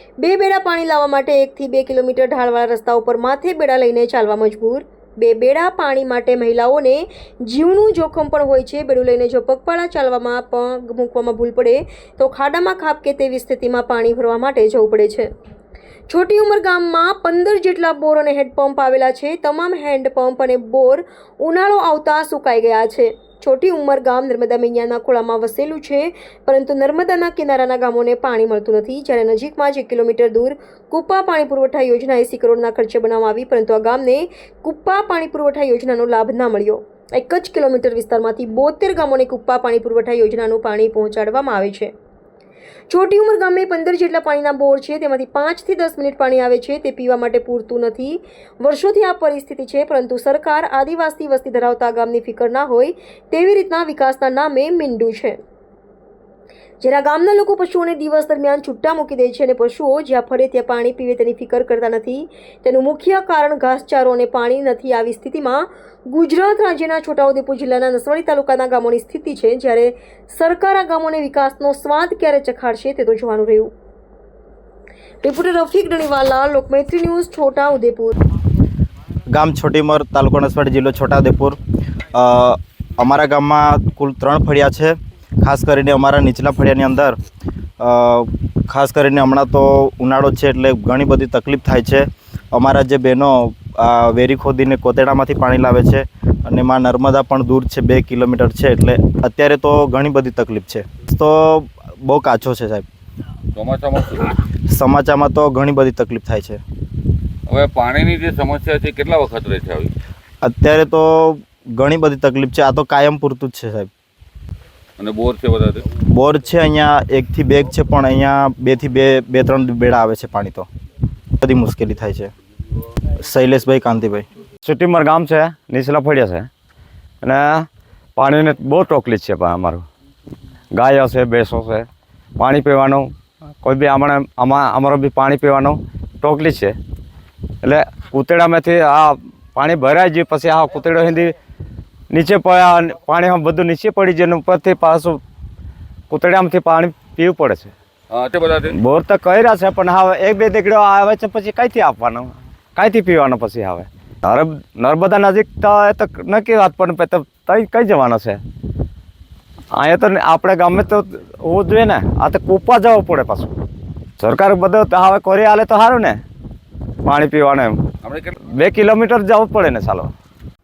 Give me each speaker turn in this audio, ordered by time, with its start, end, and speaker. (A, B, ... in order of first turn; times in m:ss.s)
0:00.2-0:15.3 A
0:16.1-0:41.9 A
0:42.9-0:55.4 A
0:56.8-1:13.7 A
1:15.2-1:18.1 A
1:19.3-1:21.6 B
1:22.1-1:27.2 B
1:27.8-1:42.8 B
1:43.6-1:44.4 C
1:44.7-1:46.6 B
1:47.5-1:49.9 C
1:50.4-1:53.9 B
1:55.0-1:55.8 C
1:56.1-2:00.7 B
2:01.4-2:02.3 B
2:03.2-2:04.2 B
2:04.6-2:06.5 D
2:07.2-2:09.8 D
2:10.7-2:11.9 D
2:12.4-2:13.1 D
2:13.6-2:16.8 D
2:17.6-2:21.4 D
2:22.1-2:25.2 D
2:26.1-2:27.7 D
2:28.1-2:28.8 C
2:28.7-2:38.4 D
2:39.7-2:43.5 D
2:44.2-2:46.2 D
2:47.0-2:47.8 D
2:48.0-2:48.4 C
2:48.4-2:50.1 D